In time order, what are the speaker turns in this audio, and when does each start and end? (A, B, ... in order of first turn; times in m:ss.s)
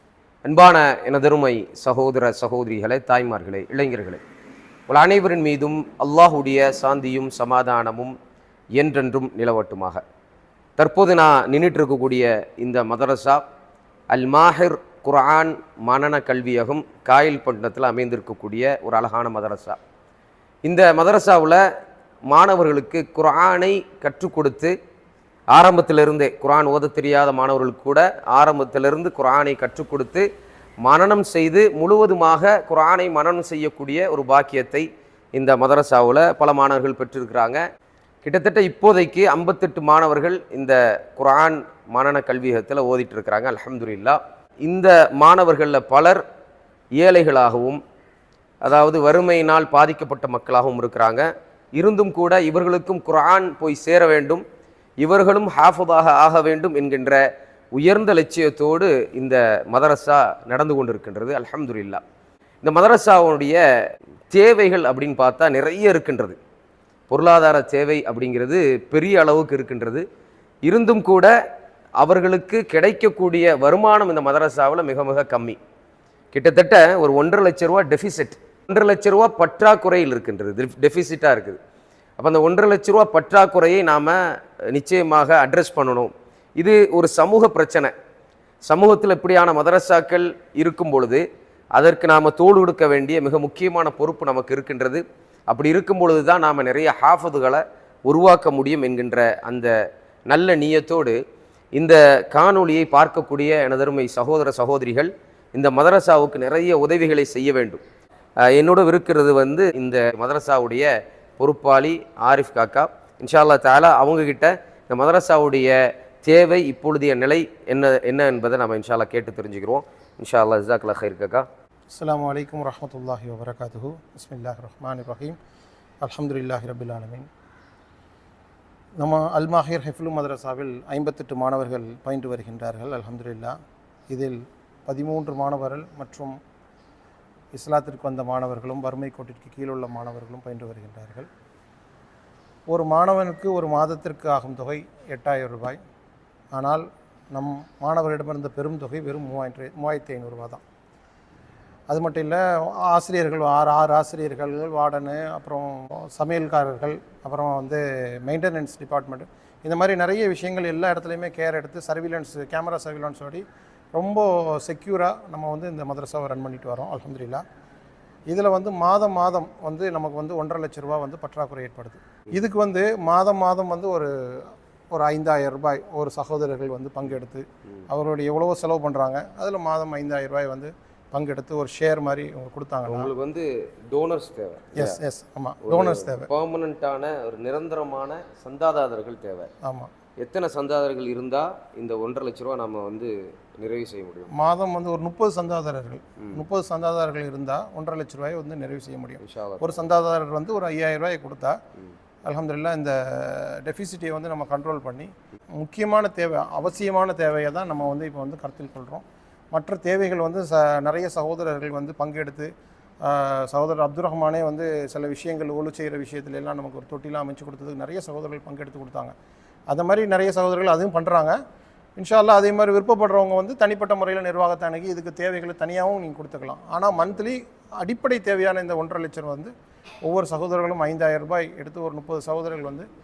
0:00.5-0:04.2 A
0:04.9-0:08.2 A
0:08.8-0:10.0 A
0:10.8-0:13.4 A
0:14.1-0:19.8 A
0:20.6-0:21.6 A
0:22.3-0:24.7 A
0:25.5-0:30.3 A
0:30.8-0:37.6 A
0:38.2-0:46.2 A
0:47.0-0:47.8 A
0:48.6-0:54.4 A
0:55.0-0:57.2 A
0:57.7-1:02.0 A
1:02.6-1:03.6 A
1:04.3-1:06.4 A
1:07.1-1:10.0 A
1:10.7-1:11.3 A
1:12.0-1:15.6 A
1:16.3-1:21.6 A
1:22.2-1:24.2 A
1:24.7-1:27.9 A
1:28.7-1:31.2 A
1:31.8-1:39.7 A
1:40.3-1:41.2 A
1:41.8-1:47.8 A
1:48.5-2:01.4 A
2:01.9-2:05.4 B
2:06.0-2:07.3 B
2:09.0-2:13.6 B
2:14.1-2:16.4 B
2:17.6-2:21.3 B
2:22.7-2:25.8 B
2:26.5-2:30.6 B
2:31.9-2:43.4 B
2:43.9-2:47.4 B
2:48.3-3:03.1 B
3:02.9-3:05.0 A
3:04.7-3:06.3 B
3:05.6-3:09.5 A
3:09.6-3:09.9 B
3:10.2-3:14.3 A
3:14.3-3:21.6 B
3:19.2-3:19.8 A
3:22.3-3:32.5 B
3:33.0-3:39.1 B
3:39.7-3:41.4 B
3:42.0-3:49.5 B
3:50.1-3:52.9 B